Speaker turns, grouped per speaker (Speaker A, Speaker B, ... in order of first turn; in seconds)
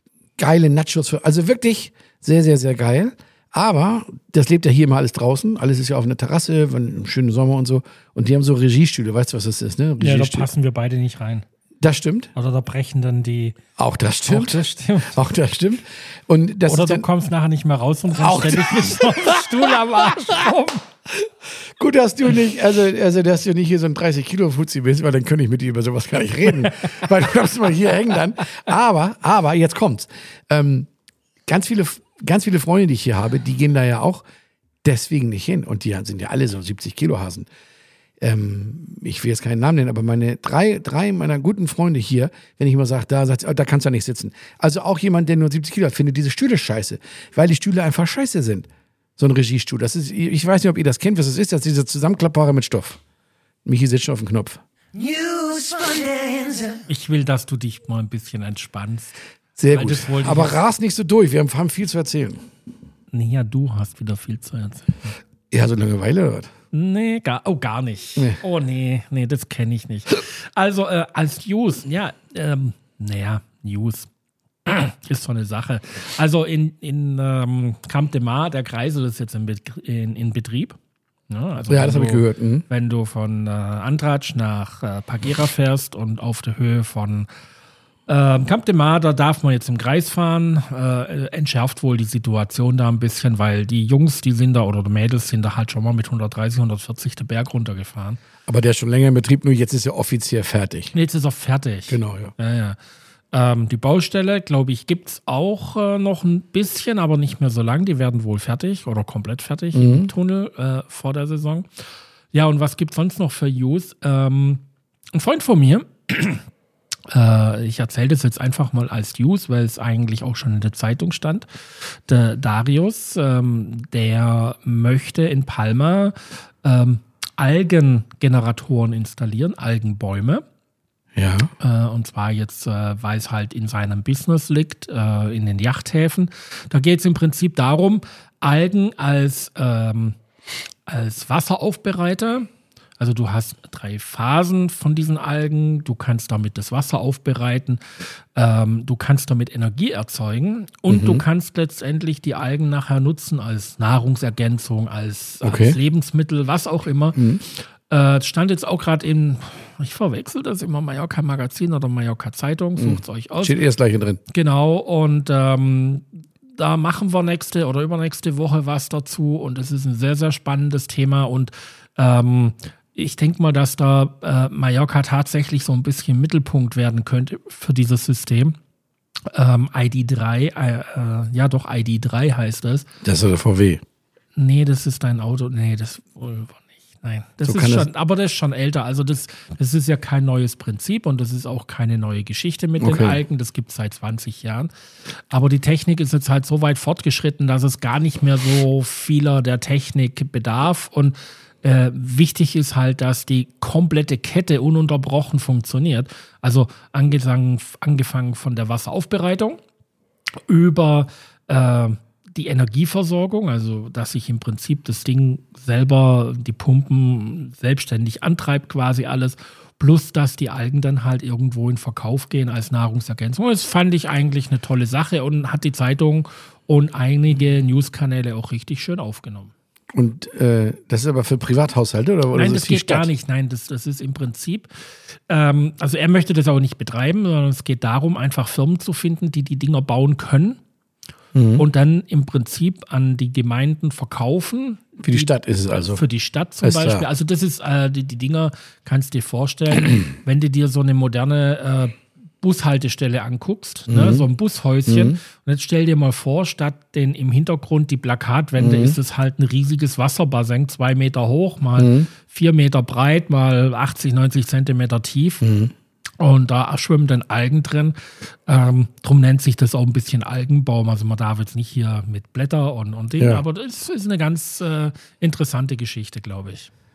Speaker A: 0.4-10.5, 11.8-12.3, 13.8-17.1, 18.2-20.5, 21.1-30.9, 31.5-34.2, 34.8-37.5, 38.2-53.0, 53.6-54.6, 59.6-62.5, 65.5-66.5, 81.7-82.6, 98.5-100.9, 101.9-102.3, 109.7-110.1, 131.2-131.5, 150.9-151.2, 155.4-155.8, 157.2-157.4, 162.8-164.2, 183.0-183.8, 187.4-187.9, 192.8-193.2, 229.9-233.1, 241.3-241.7, 245.0-246.0, 246.6-247.1, 253.9-254.3, 254.9-255.2, 258.6-259.0, 261.8-262.1, 265.4-265.7
Speaker B: 10.0-11.4, 12.3-13.6, 14.3-15.2, 16.7-20.8, 56.9-59.2, 59.7-60.6, 63.1-65.1, 66.7-74.1, 74.7-80.8, 81.3-87.3, 88.1-98.2, 100.9-102.8, 103.3-111.7, 112.3-114.6, 115.1-116.4, 117.1-130.4, 131.6-140.2, 140.9-163.6, 164.3-178.6, 179.3-182.9, 184.4-194.7, 195.3-209.6, 210.5-229.5, 232.3-240.6, 241.6-265.4, 266.2-276.7
Speaker C: 54.9-56.9